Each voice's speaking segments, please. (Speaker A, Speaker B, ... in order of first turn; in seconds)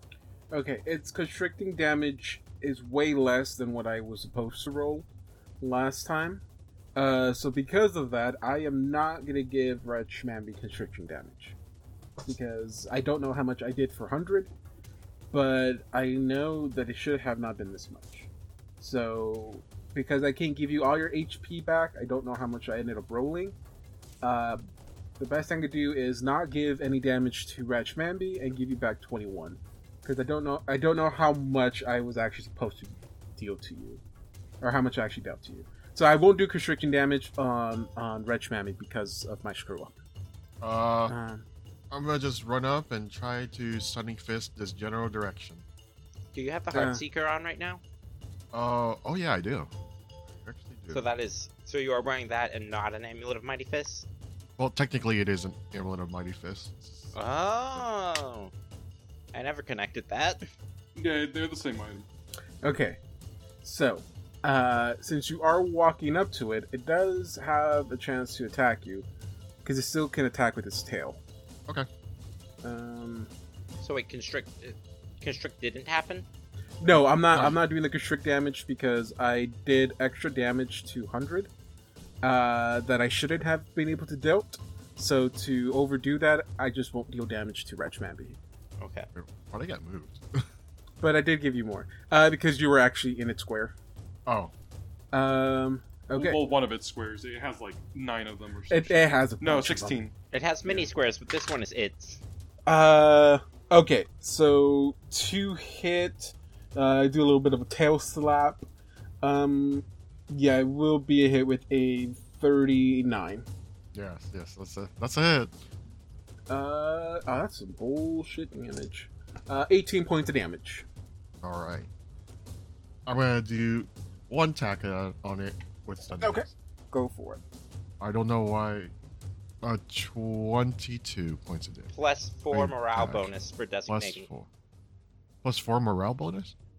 Speaker A: 0.5-5.0, 5.6-6.4, 7.0-11.6, 12.2-14.5, 15.3-18.3, 18.8-23.5, 24.2-24.6, 25.2-34.0, 34.6-40.0, 41.1-41.4, 46.7-47.0, 62.6-63.0, 63.6-69.0, 69.6-71.2, 72.6-73.3, 76.8-81.5, 82.2-88.4, 91.0-93.7, 95.1-96.4, 98.7-100.0, 102.7-108.6, 109.2-113.5, 116.5-120.8, 126.2-127.4
Speaker B: 40.6-41.1, 41.9-45.6, 48.5-49.7, 50.3-51.1, 54.6-57.1, 89.1-90.5, 94.3-94.5, 113.9-115.5, 121.4-121.9, 123.1-126.5, 128.0-128.9, 129.6-131.9, 132.5-133.3, 133.9-134.5, 135.4-136.5
Speaker C: 46.3-47.8, 50.9-54.1, 57.1-58.5, 59.3-60.4, 73.8-76.2, 88.8-89.1, 100.3-102.2, 131.9-134.2
Speaker D: 61.0-62.0, 96.1-100.1